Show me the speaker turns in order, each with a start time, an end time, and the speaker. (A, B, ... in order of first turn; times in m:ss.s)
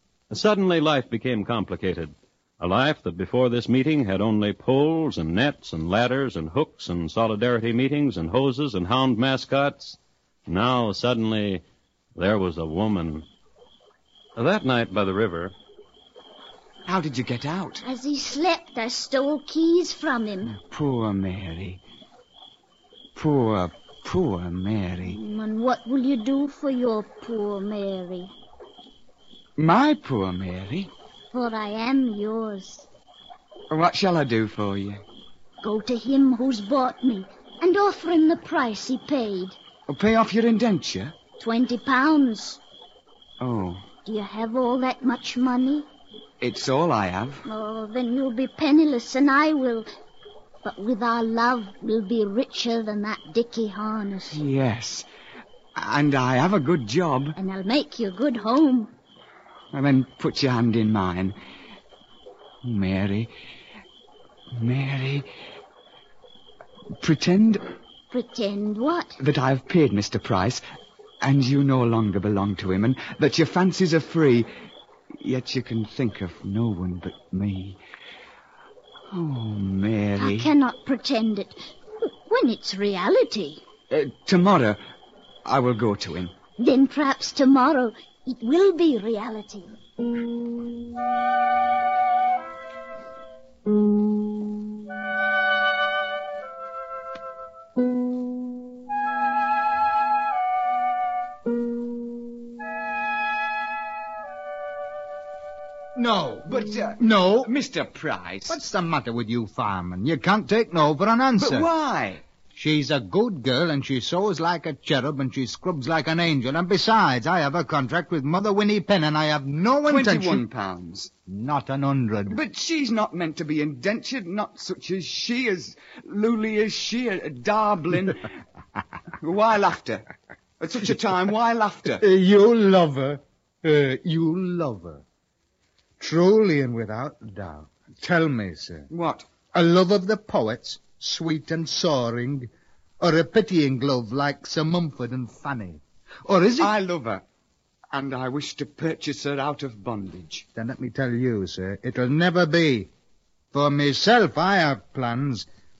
0:00.3-0:11.6 A
0:12.2-0:13.3 A
0:14.4-0:15.5 A
0:16.9-0:17.8 B
0:17.8-0:20.6 C
0:20.6-0:21.8 B
0:23.2-0:25.2 B
0:25.1-0:28.3 C
0:29.6-0:30.9 B
0:31.3-0:32.9 C
0:33.7-0:35.0 B
0:35.6-0:39.6 C
0:39.9-0:41.2 B
0:41.4-0:42.6 C
0:43.4-0:43.9 B
0:44.1-0:45.9 C
0:46.4-0:47.5 B
0:47.5-0:49.9 C
0:50.6-0:54.4 C
0:54.3-0:55.1 B
0:55.8-0:57.4 B
0:57.4-0:58.9 C
0:59.7-1:01.4 B
1:02.6-1:03.3 B
1:04.5-1:05.3 B
1:07.0-1:07.6 B
1:08.1-1:09.2 C
1:09.2-1:10.6 B
1:11.2-1:14.5 B
1:15.2-1:17.8 B
1:19.1-1:20.5 B
1:20.2-1:23.6 C
1:23.9-1:24.8 B
1:25.4-1:26.3 B
1:26.6-1:29.7 C
1:46.0-1:47.5 D
1:46.5-1:48.6 B
1:48.5-1:51.7 D
1:51.4-1:52.2 B
1:52.5-2:00.4 D
1:59.9-2:01.1 B
2:01.3-2:02.4 D
2:02.3-2:08.3 B
2:09.2-2:10.1 B
2:10.6-2:12.0 B
2:12.0-2:15.0 D
2:16.0-2:18.9 D
2:18.9-2:19.3 B
2:19.5-2:22.5 D
2:23.0-2:26.7 D
2:26.6-2:27.2 B
2:27.9-2:30.5 B
2:30.6-2:32.9 D
2:33.5-2:35.5 D